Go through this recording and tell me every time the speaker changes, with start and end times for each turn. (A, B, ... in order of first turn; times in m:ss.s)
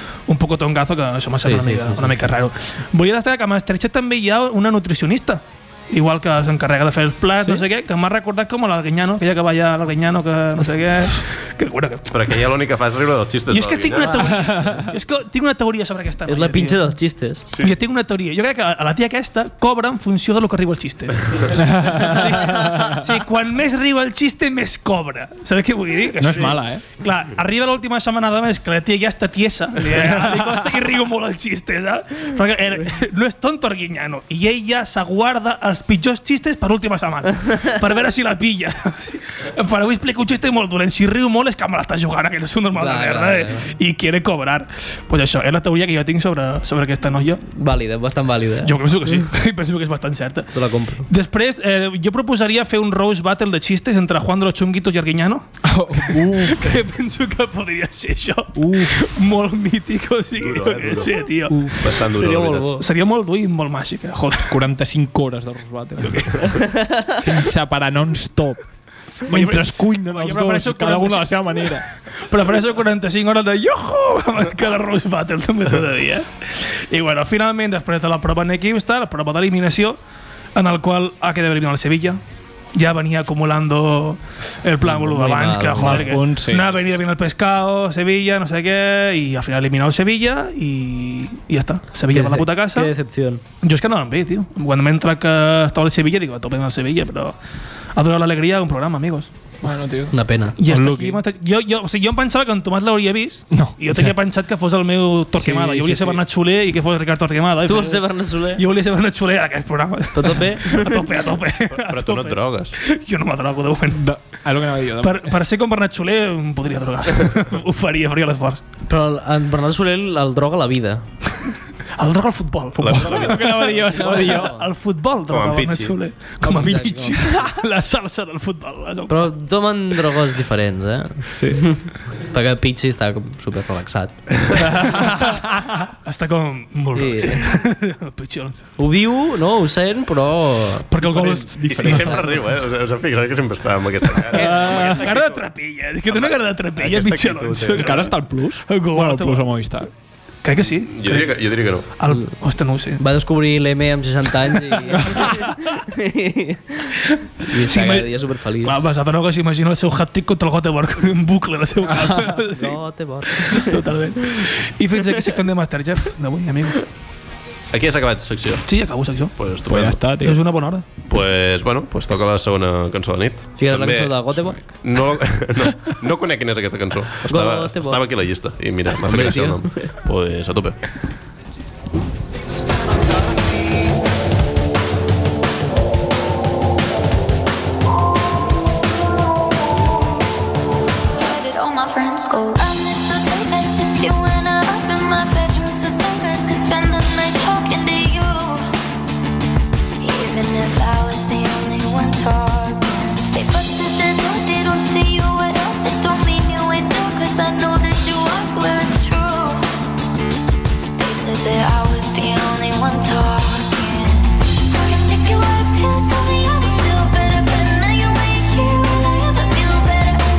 0:00.3-0:12.2 A
0:01.4-0:02.3 B
0:12.1-0:14.4 C
0:13.5-0:16.8 A
0:14.4-0:14.9 D
0:16.2-0:17.4 B
0:17.5-0:17.8 C
0:17.6-0:47.4 A
0:21.6-0:22.9 D
0:26.2-0:26.8 D
0:30.0-0:30.6 D
0:42.7-0:43.7 B
0:47.5-0:48.8 B
0:48.6-0:50.5 A
0:50.5-0:51.1 B
0:51.1-0:55.4 A
0:55.6-0:56.8 D
0:56.0-1:01.8 A
0:58.6-0:59.2 D
1:00.4-1:01.2 C
1:01.5-1:01.9 D
1:01.8-1:02.7 C
1:02.1-1:02.8 B
1:02.8-1:04.6 A
1:04.5-1:06.5 D
1:06.0-1:06.8 A
1:07.1-1:08.6 D
1:09.2-1:20.0 A
1:09.3-1:11.9 D
1:20.5-1:22.2 A
1:22.7-1:32.9 A
1:24.8-1:26.2 B
1:25.8-1:26.8 D
1:32.1-1:33.4 B
1:33.6-1:37.4 A
1:38.0-1:39.3 A
1:39.6-1:41.2 D
1:40.1-1:40.6 B
1:40.6-1:54.0 A
1:43.5-1:44.1 D
1:45.4-1:46.2 D
1:47.6-1:48.6 B
1:50.1-1:51.2 B
1:51.7-1:52.8 C
1:53.9-1:55.3 D
1:55.0-1:58.6 A
1:58.9-2:01.0 B
2:02.0-2:09.2 A
2:02.8-2:03.5 C
2:02.9-2:04.6 D
2:03.9-2:04.7 B
2:05.3-2:06.0 C
2:06.4-2:07.2 D
2:06.5-2:07.2 B
2:09.1-2:14.6 B
2:11.3-2:11.8 D
2:14.8-2:15.0 D
2:14.8-2:15.4 A
2:16.0-2:18.6 A
2:16.9-2:17.4 B
2:18.8-2:20.9 B
2:20.9-2:22.3 A
2:21.0-2:22.3 D
2:21.7-2:25.4 C
2:24.3-2:29.5 A
2:24.3-2:25.0 D
2:26.0-2:28.0 C
2:27.7-2:29.9 D
2:30.4-2:31.4 A
2:30.8-2:31.9 C
2:32.0-2:33.0 A
2:33.0-2:38.8 B
2:35.5-2:35.8 A
2:37.6-2:42.8 A
2:42.0-2:42.3 D
2:42.5-2:43.8 B
2:43.3-2:46.9 A
2:47.7-2:48.7 C
2:48.6-2:49.3 A
2:49.4-2:50.0 C
2:49.7-2:50.4 D
2:50.1-2:50.8 A
2:51.1-3:00.8 C
2:53.6-2:54.6 B
2:57.2-2:58.0 B
2:59.0-2:59.9 B
3:11.1-3:18.7 E
3:20.0-3:29.6 E
3:31.0-3:40.2 E